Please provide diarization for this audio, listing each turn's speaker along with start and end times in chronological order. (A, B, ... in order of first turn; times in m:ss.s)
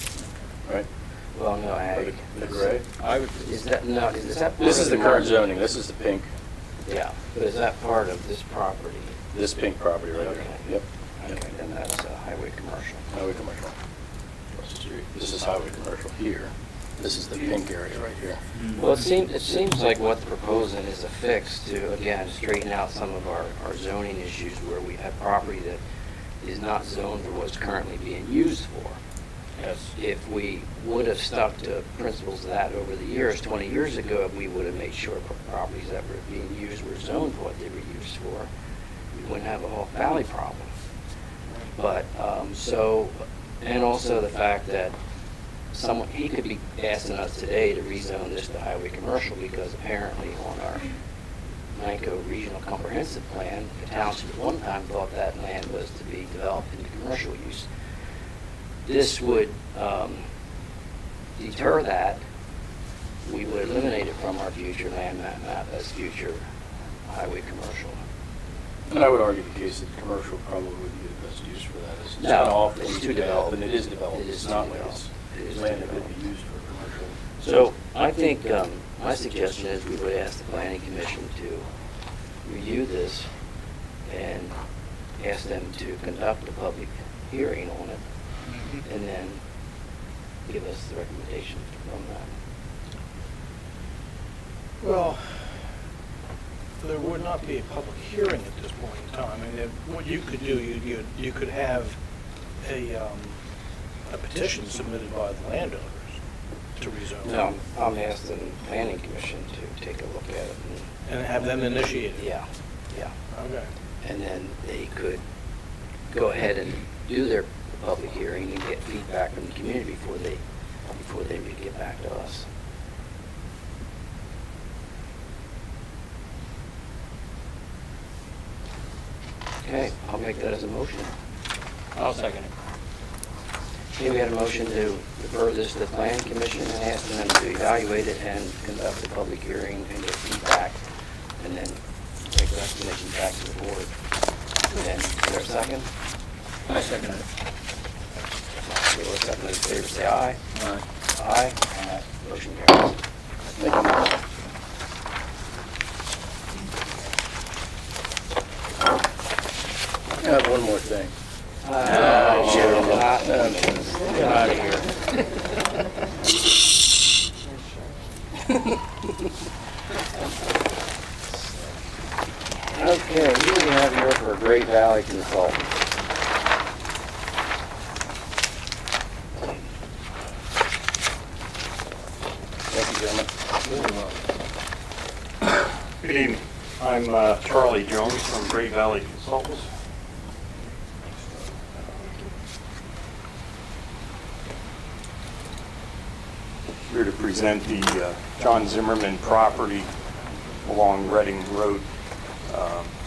0:01.3-0:02.7 A
0:02.0-0:02.8 B
0:03.0-0:03.5 C
0:03.4-0:05.4 A
0:04.6-0:06.3 B
0:06.8-0:09.2 A
0:09.3-0:10.8 B
0:10.1-0:13.1 A
0:13.1-0:13.8 B
0:14.5-0:18.4 B
0:18.6-0:18.8 C
0:18.7-0:25.8 A
0:26.4-0:29.0 A
0:29.6-0:29.8 C
0:29.9-0:38.5 A
0:39.1-0:40.7 A
0:41.8-0:44.9 A
0:45.7-0:50.8 A
0:51.7-0:57.7 A
0:58.8-1:00.2 A
1:01.4-1:02.2 A
1:03.2-1:06.4 A
1:07.1-1:08.0 A
1:08.9-1:17.2 B
1:12.2-1:16.2 A
1:17.4-1:21.6 A
1:22.4-1:23.3 A
1:24.0-1:24.6 A
1:25.2-1:28.0 A
1:28.8-1:29.4 A
1:30.4-1:32.3 A
1:34.8-1:35.5 D
1:36.8-1:42.0 D
1:42.6-1:43.4 D
1:44.1-1:46.2 D
1:46.8-1:47.4 D
1:47.2-1:50.9 A
1:51.0-1:52.3 D
1:52.1-1:53.1 A
1:53.3-1:53.7 D
1:54.0-1:55.2 A
1:56.1-2:00.4 A
2:00.9-2:02.4 A
2:09.6-2:11.1 A
2:11.9-2:12.5 C
2:14.0-2:20.8 A
2:21.4-2:23.9 A
2:24.7-2:25.9 A
2:26.7-2:27.2 C
2:28.6-2:30.4 A
2:30.5-2:30.8 C
2:31.1-2:32.9 A
2:33.6-2:34.1 B
2:40.2-2:41.1 B
2:41.6-2:44.8 A
2:41.8-2:43.0 C
2:41.9-2:43.8 B
2:44.1-2:44.8 C
2:52.7-2:55.6 A
3:02.7-3:03.3 B
3:03.6-3:04.2 C
3:06.0-3:09.7 E
3:16.9-3:19.9 E
3:20.6-3:21.9 E
3:22.4-3:22.9 E